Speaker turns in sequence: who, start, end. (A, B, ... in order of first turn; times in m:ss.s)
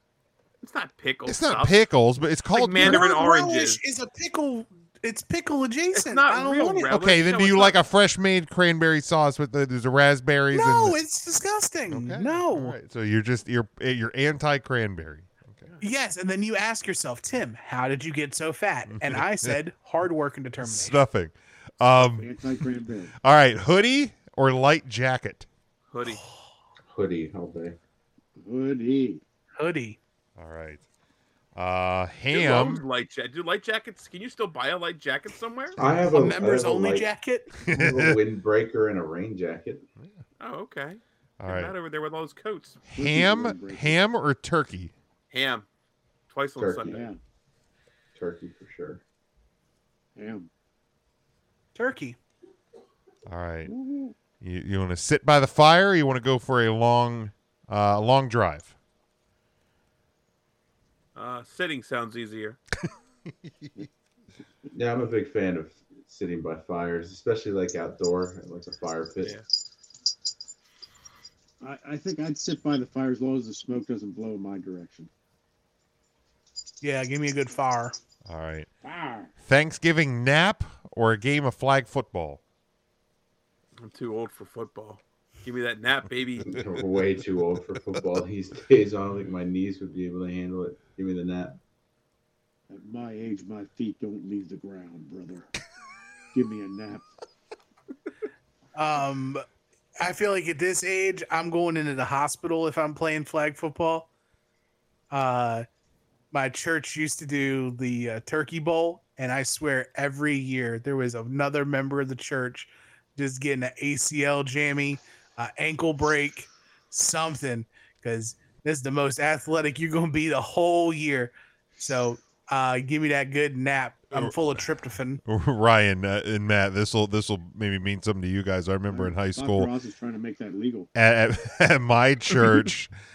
0:00.6-0:01.8 A
0:01.2-0:03.1 B
0:02.5-0:03.8 A
0:02.8-0:06.9 C
0:05.9-0:07.8 A
0:06.9-0:11.0 B
0:10.5-0:12.8 C
0:11.9-0:15.7 B
0:15.8-0:21.0 C
0:18.9-0:19.6 B
0:20.6-0:22.3 B
0:22.0-0:23.1 D
0:23.2-0:25.5 B
0:25.9-0:26.2 A
0:26.9-0:27.8 E
0:28.4-0:29.2 D
0:29.6-0:30.0 C
0:30.4-0:30.8 B
0:31.5-0:32.8 B
0:32.3-0:35.8 A
0:35.8-0:37.1 E
0:36.1-0:37.5 C
0:37.6-0:38.2 B
0:37.6-0:39.8 E
0:40.4-0:42.8 A
0:41.4-0:41.7 B
0:42.9-0:44.9 B
0:42.9-0:44.0 D
0:45.3-0:45.6 A
0:46.3-0:47.0 A
0:46.6-0:47.1 E
0:46.8-0:47.2 D
0:48.1-0:49.0 E
0:50.2-0:50.5 D
0:51.7-0:52.2 C
0:53.3-0:53.7 B
0:53.6-0:54.1 D
0:54.4-0:58.7 B
1:01.1-1:02.6 A
1:04.7-1:09.4 E
1:11.6-1:15.1 D
1:16.8-1:18.0 C
1:18.2-1:18.7 B
1:18.8-1:19.3 D
1:19.4-1:22.4 B
1:23.8-1:26.6 A
1:26.4-1:31.6 E
1:32.7-1:35.5 D
1:36.3-1:37.1 D
1:38.7-1:39.4 C
1:40.0-1:44.1 C
1:45.1-1:45.7 C
1:46.3-2:05.2 C
2:04.1-2:04.6 B
2:05.2-2:09.7 B
2:08.9-2:10.9 D
2:10.9-2:12.9 B